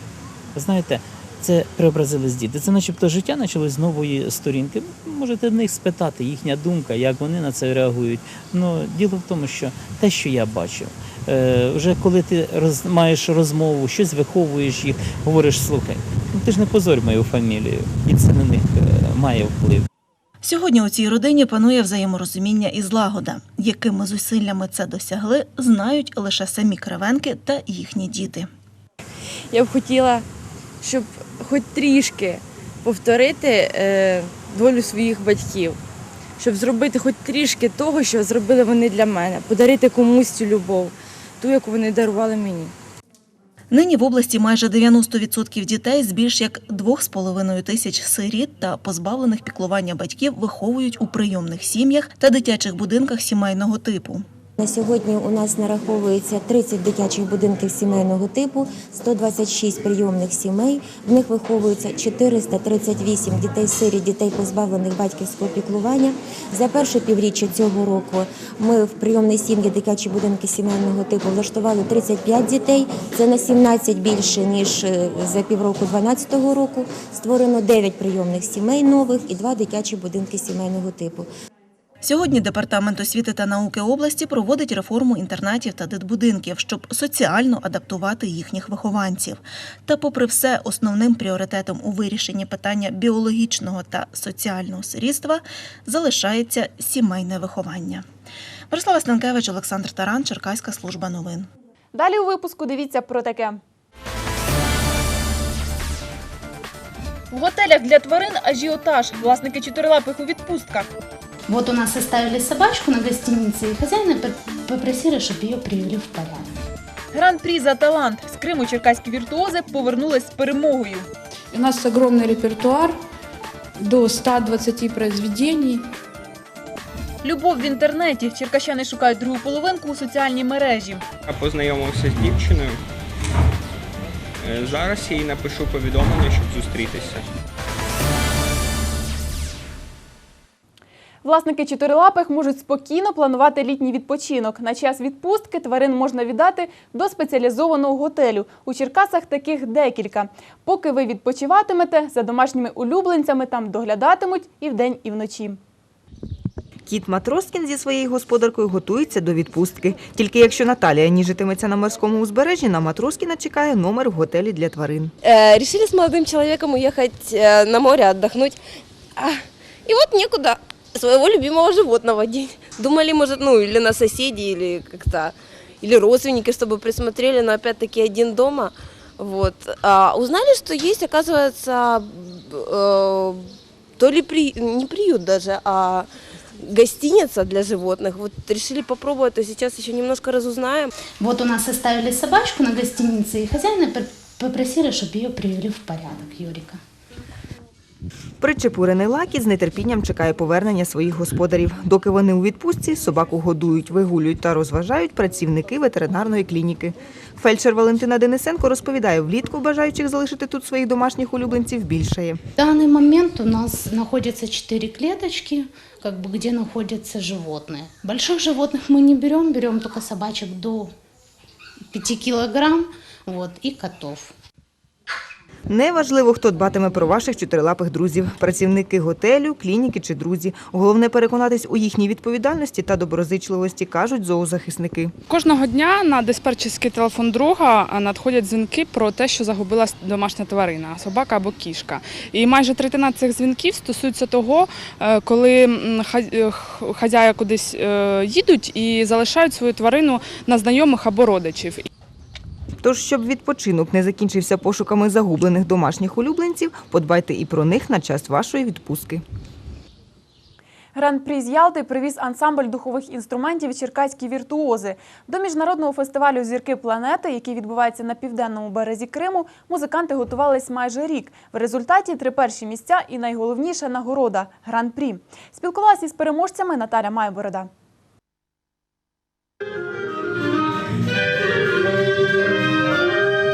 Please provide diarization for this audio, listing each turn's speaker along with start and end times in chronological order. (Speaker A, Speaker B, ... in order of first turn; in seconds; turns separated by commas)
Speaker A: 0.6-19.9, Speaker B: 20.4-28.5, Speaker C: 29.5-30.3, Speaker C: 30.8-35.8, Speaker C: 36.4-42.7, Speaker B: 43.7-54.2, Speaker D: 54.6-81.3, Speaker B: 82.0-98.1, Speaker B: 98.7-101.5, Speaker E: 101.9-103.6, Speaker E: 107.3-110.9, Speaker F: 111.5-116.5, Speaker E: 117.1-121.1, Speaker G: 121.5-123.0, Speaker G: 123.8-125.9, Speaker E: 127.2-131.0, Speaker H: 131.3-132.8, Speaker H: 134.4-137.3, Speaker E: 141.2-155.6, Speaker I: 156.8-165.1, Speaker J: 165.2-168.6, Speaker J: 169.2-190.9, Speaker F: 191.2-196.8, Speaker I: 198.4-212.4, Speaker F: 212.6-220.9, Speaker F: 221.9-224.3, Speaker I: 225.7-235.2, Speaker G: 235.3-251.9, Speaker I: 252.8-259.2, Speaker E: 260.9-277.7